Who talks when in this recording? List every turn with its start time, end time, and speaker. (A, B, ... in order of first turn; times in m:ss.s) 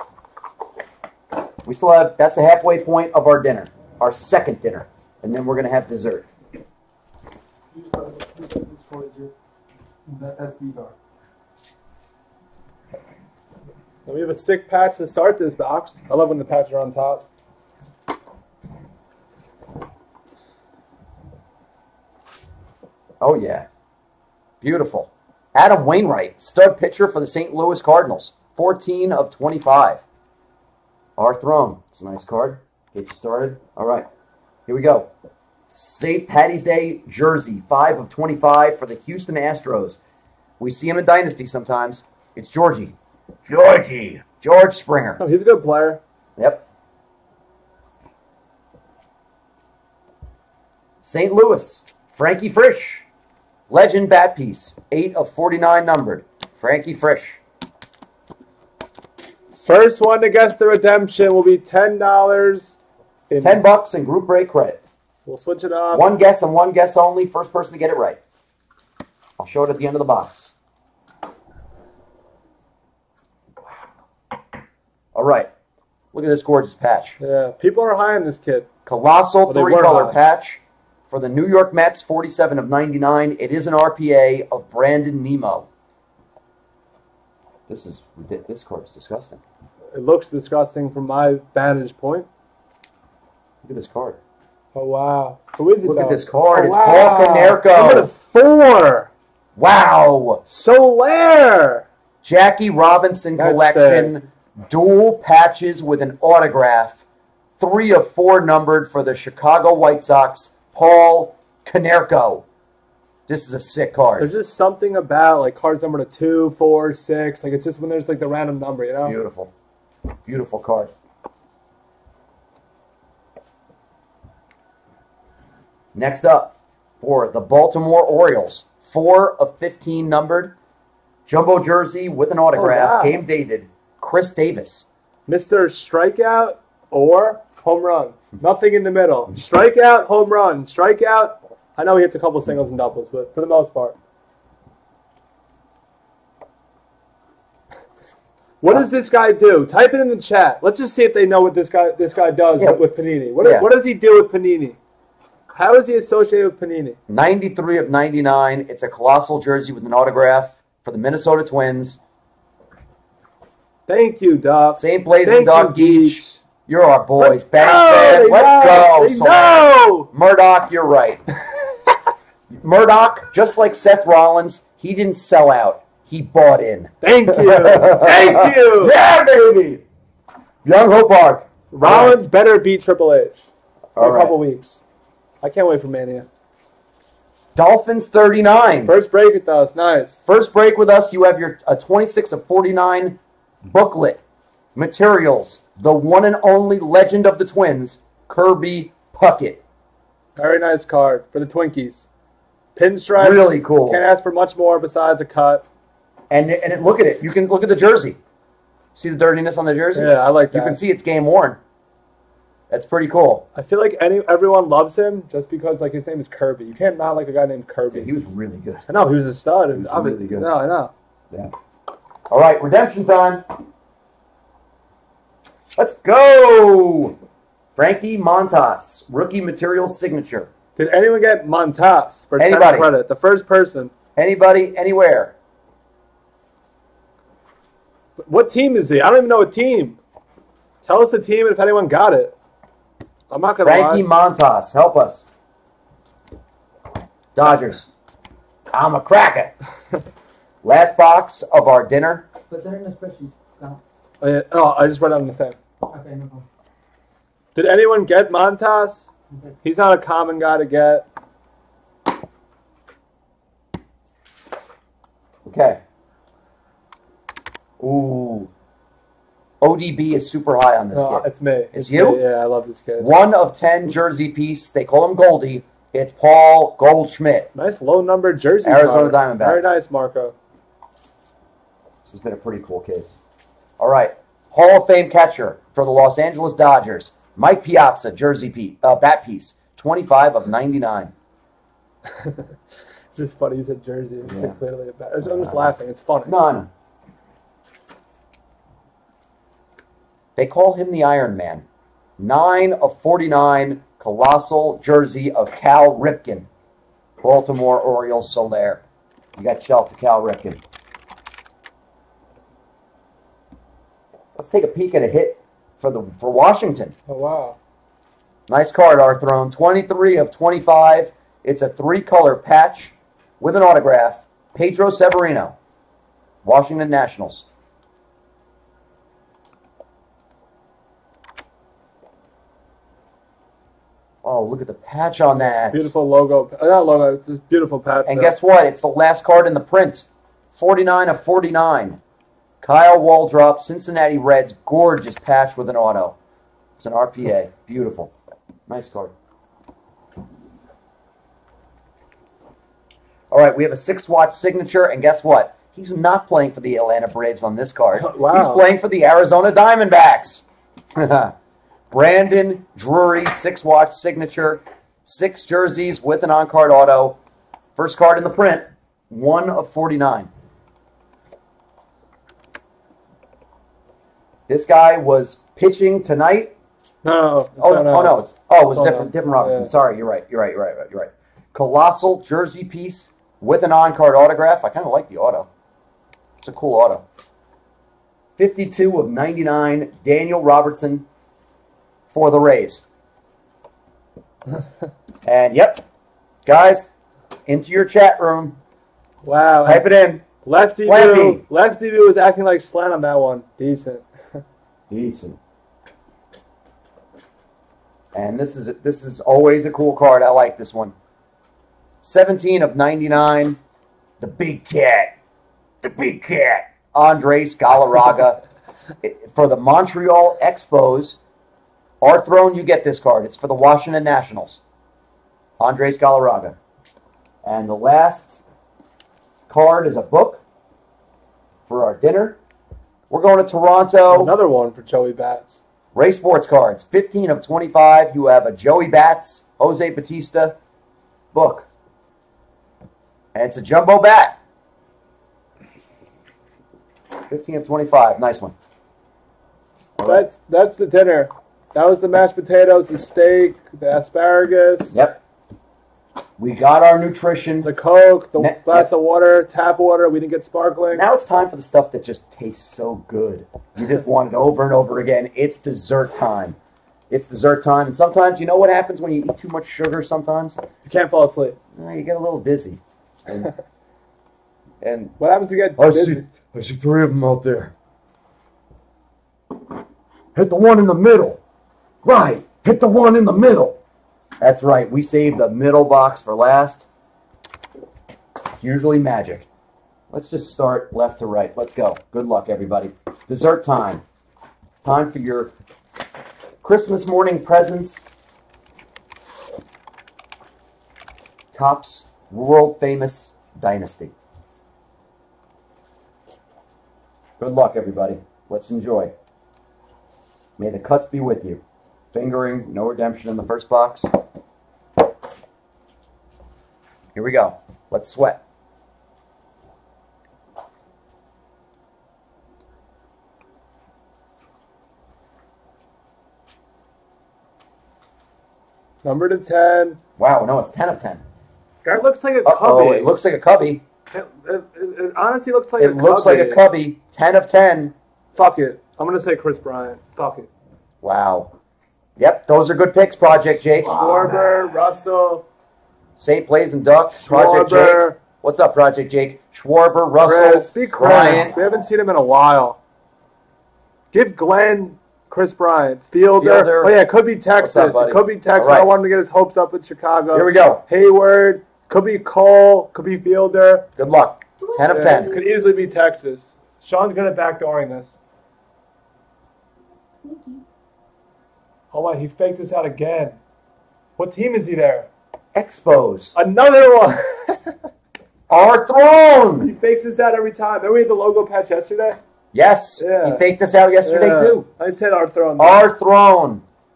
0:01.6-0:06.3 A
0:07.7-0:09.3 B
0:10.1-0:10.9 B
0:14.0-0:17.2 B
0:23.2-0:23.7 A
0:24.6-0:30.0 A
0:31.2-0:34.1 A
0:34.7-0:35.1 A
0:35.7-0:40.0 A
0:40.6-0:42.9 A
0:43.5-0:45.2 A
0:45.2-0:46.0 B
0:46.4-0:46.6 A
0:51.0-0:53.0 A
0:53.7-0:57.4 A
0:59.5-1:02.8 B
1:03.3-1:03.6 B
1:03.4-1:04.8 A
1:05.2-1:06.0 B
1:05.9-1:08.2 A
1:09.4-1:10.5 A
1:15.1-1:15.5 A
1:16.1-1:17.2 A
1:17.2-1:18.7 B
1:18.8-1:25.7 A
1:19.5-1:20.2 B
1:27.7-1:29.4 A
1:29.9-1:32.3 B
1:33.6-1:34.2 A
1:34.7-1:39.1 B
1:35.8-1:38.1 A
1:39.6-1:40.4 A
1:40.5-1:41.9 B
1:42.2-1:47.0 A
1:43.4-1:44.1 B
1:47.6-1:52.4 A
1:53.3-1:54.3 A
1:54.2-1:59.2 B
1:59.0-1:59.5 A
2:00.2-2:00.9 A
2:05.9-2:10.5 A
2:11.3-2:14.9 A
2:12.5-2:13.2 B
2:15.3-2:24.0 B
2:28.6-2:34.8 B
2:33.4-2:33.7 A
2:35.5-2:37.0 B
2:37.1-2:42.0 A
2:43.9-2:46.4 B
2:44.8-2:51.2 A
2:47.2-2:50.1 B
2:52.5-2:59.8 A
2:57.0-2:59.0 B
3:00.6-3:02.2 A
3:01.7-3:03.4 B
3:04.0-3:04.4 A
3:04.0-3:04.8 B
3:05.4-3:06.3 B
3:07.5-3:08.9 A
3:08.8-3:10.2 B
3:10.2-3:14.2 A
3:14.7-3:19.6 A
3:20.4-3:22.1 B
3:22.8-3:25.6 B
3:23.2-3:24.0 A
3:26.3-3:28.2 A
3:28.9-3:31.6 A
3:29.9-3:30.8 B
3:32.7-3:33.4 A
3:33.5-3:38.1 B
3:37.9-3:38.9 A
3:38.9-3:40.9 B
3:39.7-3:40.5 A
3:42.3-3:43.4 A
3:45.8-3:47.2 A
3:47.8-3:50.5 A
3:50.8-3:53.9 B
3:52.4-3:52.9 A
3:54.2-3:55.3 A
3:58.2-4:00.0 B
4:00.8-4:02.3 B
4:03.3-4:04.0 B
4:03.6-4:05.2 A
4:07.3-4:07.9 A
4:08.7-4:09.5 A
4:10.6-4:12.2 A
4:12.5-4:13.8 C
4:14.2-4:15.6 B
4:15.8-4:16.4 C
4:17.5-4:19.1 B
4:19.3-4:19.6 C
4:19.6-4:21.1 B
4:25.4-4:25.8 A
4:27.8-4:28.5 A
4:29.6-4:32.2 A
4:30.9-4:33.1 B
4:33.0-4:37.5 A
4:37.5-4:40.3 B
4:38.6-4:39.7 A
4:42.0-4:43.1 A
4:43.8-4:51.1 A
4:52.0-4:52.5 B
4:53.1-4:56.4 B
4:54.2-4:54.6 A
4:55.2-4:55.7 A
4:56.2-4:56.7 A
5:00.4-5:01.6 A
5:02.2-5:06.5 A
5:07.2-5:08.8 A
5:09.4-5:10.6 A
5:14.3-5:16.9 A
5:17.1-5:17.6 B
5:18.5-5:25.6 A
5:26.4-5:27.5 A
5:34.2-5:35.9 A
5:35.4-5:38.3 B
5:38.0-5:42.0 A
5:42.6-5:46.2 A
5:46.8-5:48.1 A
5:48.7-5:49.1 A
5:53.3-6:00.4 A
5:57.9-5:58.6 B
6:00.9-6:01.3 A
6:01.9-6:07.2 A
6:07.8-6:10.3 A
6:14.5-6:16.5 A
6:17.0-6:19.7 B
6:17.6-6:25.5 A
6:26.4-6:27.0 A
6:28.4-6:31.1 A
6:32.1-6:32.8 A
6:35.2-6:35.8 A
6:36.4-6:36.9 A
6:37.5-6:38.6 A
6:39.2-6:39.8 B
6:39.6-6:40.2 A
6:40.4-6:44.4 B
6:40.8-6:41.4 A
6:44.9-6:45.4 A
6:48.1-6:50.9 A
6:52.0-6:53.6 A
6:54.2-6:55.2 A
6:55.8-6:58.4 A
6:59.0-7:01.2 A
7:02.0-7:04.6 A
7:05.6-7:06.6 A
7:07.4-7:08.4 A
7:09.5-7:10.4 A
7:11.7-7:12.4 A
7:13.1-7:14.3 A
7:14.1-7:15.6 B
7:15.9-7:20.6 A
7:21.3-7:21.7 A
7:23.3-7:24.4 A
7:27.3-7:28.5 A
7:30.0-7:30.3 A
7:30.0-7:35.0 B
7:34.9-7:35.2 A
7:36.4-7:37.7 A
7:37.6-7:41.1 B
7:38.4-7:38.9 A
7:40.9-7:46.6 A
7:47.1-7:50.6 A
7:50.8-7:51.6 B
7:51.7-7:53.5 A
7:54.8-7:55.1 A
7:55.2-7:56.2 B
7:55.8-7:57.7 A
8:00.3-8:01.4 A
8:02.0-8:03.8 A
8:04.4-8:06.9 A
8:08.6-8:09.5 A
8:10.1-8:14.0 A
8:14.7-8:15.5 A
8:16.6-8:18.0 A
8:21.5-8:24.1 A
8:27.4-8:29.1 A
8:30.6-8:31.6 A
8:32.1-8:34.1 A
8:37.1-8:38.4 A
8:49.0-8:50.0 B
8:50.2-8:51.2 A
8:51.8-8:53.1 B
8:52.4-8:53.8 A
8:54.1-8:56.6 B
8:55.8-8:57.9 A
8:58.3-9:00.5 B
9:01.0-9:01.5 A
9:02.2-9:04.3 A
9:03.8-9:05.4 B
9:06.2-9:11.6 A
9:07.1-9:08.2 B
9:10.2-9:12.8 B
9:14.1-9:23.9 B
9:16.3-9:17.0 A
9:17.6-9:18.9 A
9:20.3-9:20.8 A
9:24.0-9:25.3 A
9:24.6-9:25.6 C
9:24.9-9:28.2 B
9:30.2-9:30.6 C
9:31.9-9:33.4 B
9:34.2-9:35.1 B
9:35.5-9:36.3 A
9:36.3-9:37.7 B
9:38.5-9:39.7 A
9:39.6-9:42.2 B
9:42.5-9:44.7 A
9:43.0-9:43.4 B
9:44.0-9:45.8 B
9:45.6-9:46.6 A